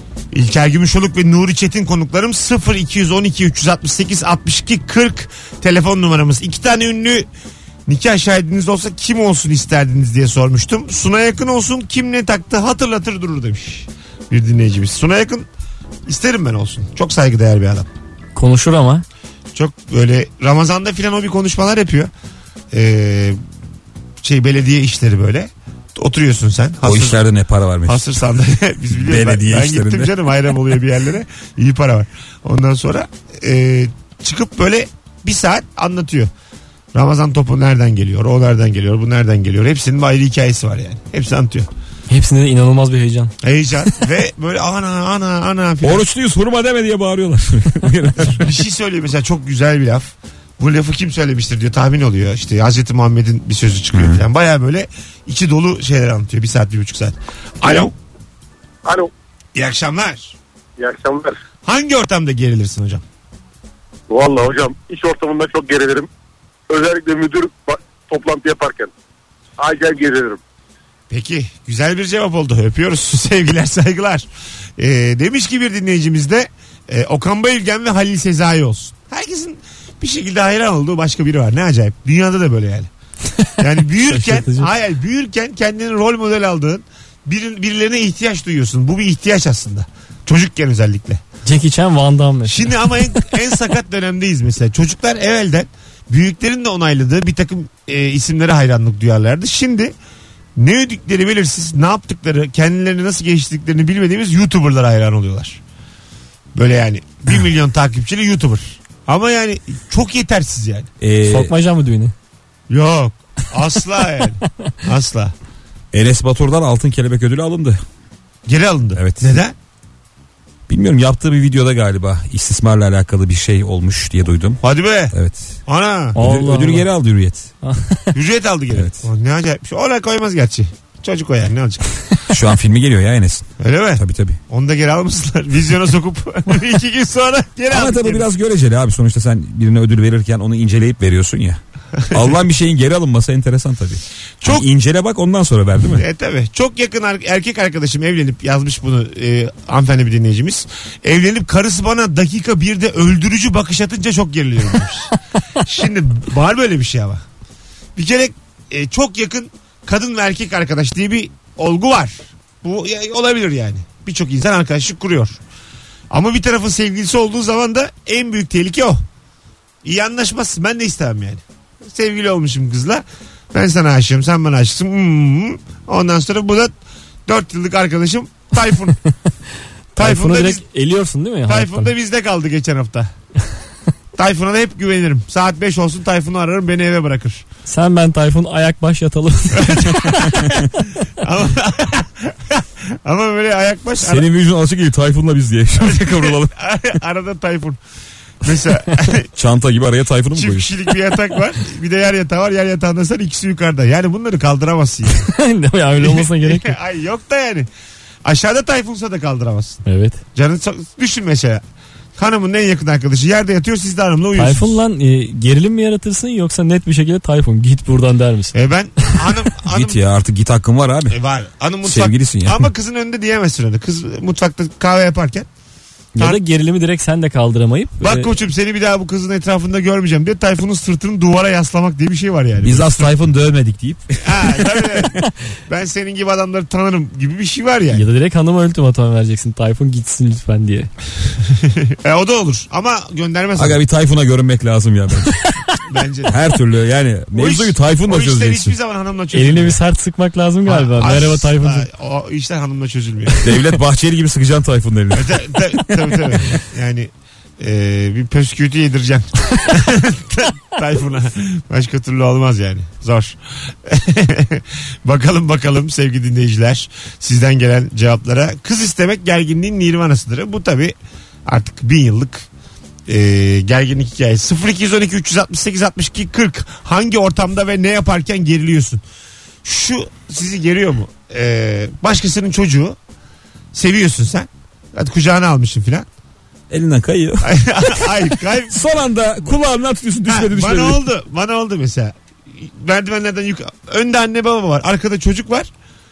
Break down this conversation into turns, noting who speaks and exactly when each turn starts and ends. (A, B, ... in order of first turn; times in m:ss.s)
0:00.3-0:07.3 A
0:07.8-0:15.5 A
0:16.1-0:17.9 A
0:18.3-0:19.0 B
0:19.5-0:22.1 A
0:22.7-0:23.4 A
0:24.2-0:27.2 A
0:26.8-0:28.2 C
0:27.8-0:36.3 A
0:28.9-0:30.2 C
0:36.9-0:41.7 A
0:42.1-0:43.3 B
0:43.4-0:46.0 A
0:45.8-0:48.5 C
0:48.3-0:57.9 A
0:53.9-0:54.2 C
0:58.8-0:59.1 D
0:59.5-1:00.3 A
1:00.8-1:01.4 D
1:01.6-1:03.0 A
1:04.1-1:06.1 D
1:06.7-1:08.9 D
1:09.6-1:10.4 D
1:11.1-1:14.2 A
1:14.8-1:22.9 A
1:23.3-1:24.7 B
1:23.6-1:31.2 A
1:31.4-1:32.9 B
1:32.5-1:39.9 A
1:40.6-1:45.6 A
1:46.5-1:50.9 A
1:51.0-1:51.5 C
1:51.2-1:52.1 B
1:52.7-1:55.3 A
1:55.9-1:57.8 C
1:58.4-1:59.5 A
1:58.9-1:59.4 C
2:00.7-2:05.6 C
2:04.6-2:05.1 A
2:05.7-2:06.2 A
2:06.1-2:06.9 B
2:06.1-2:07.5 C
2:07.6-2:08.1 B
2:08.1-2:12.0 A
2:08.7-2:09.1 C
2:12.3-2:14.4 C
2:13.6-2:18.2 A
2:17.7-2:21.6 C
2:22.1-2:26.0 C
2:25.9-2:37.2 A
2:38.0-2:45.4 A
2:46.1-2:49.0 A
2:49.8-2:56.7 A
2:57.3-2:59.0 A
2:59.9-3:01.9 B
3:00.0-3:00.6 A
3:01.5-3:03.1 A
3:04.2-3:07.4 A
3:07.7-3:10.5 B
3:09.5-3:14.2 A
3:14.0-3:16.5 C
3:15.8-3:17.8 A
3:18.4-3:19.3 A
3:19.4-3:20.7 C
3:20.3-3:25.3 A
3:25.1-3:26.8 B
3:26.0-3:27.7 A
3:28.2-3:29.8 A
3:29.8-3:30.2 B
3:30.3-3:31.6 A
3:32.2-3:34.8 A
3:34.4-3:38.5 B
3:38.5-3:40.0 A
3:39.6-3:41.2 C
3:41.1-3:45.5 A
3:41.8-3:42.7 C
3:46.1-3:48.3 B
3:48.0-3:53.1 A
3:52.6-3:55.1 C
3:54.2-3:58.0 A
3:57.9-4:00.9 B
4:01.6-4:03.8 A
4:03.6-4:05.4 C
4:05.9-4:06.4 A
4:06.2-4:08.8 C
4:07.3-4:09.8 A
4:09.3-4:11.9 B
4:10.7-4:13.5 A
4:13.4-4:15.4 C
4:15.1-4:30.9 A
4:31.4-4:32.4 A
4:33.1-4:39.0 A
4:39.6-4:43.0 A
4:43.7-4:46.0 A
4:46.7-4:51.0 C
4:47.4-4:48.8 A
4:50.3-4:55.7 A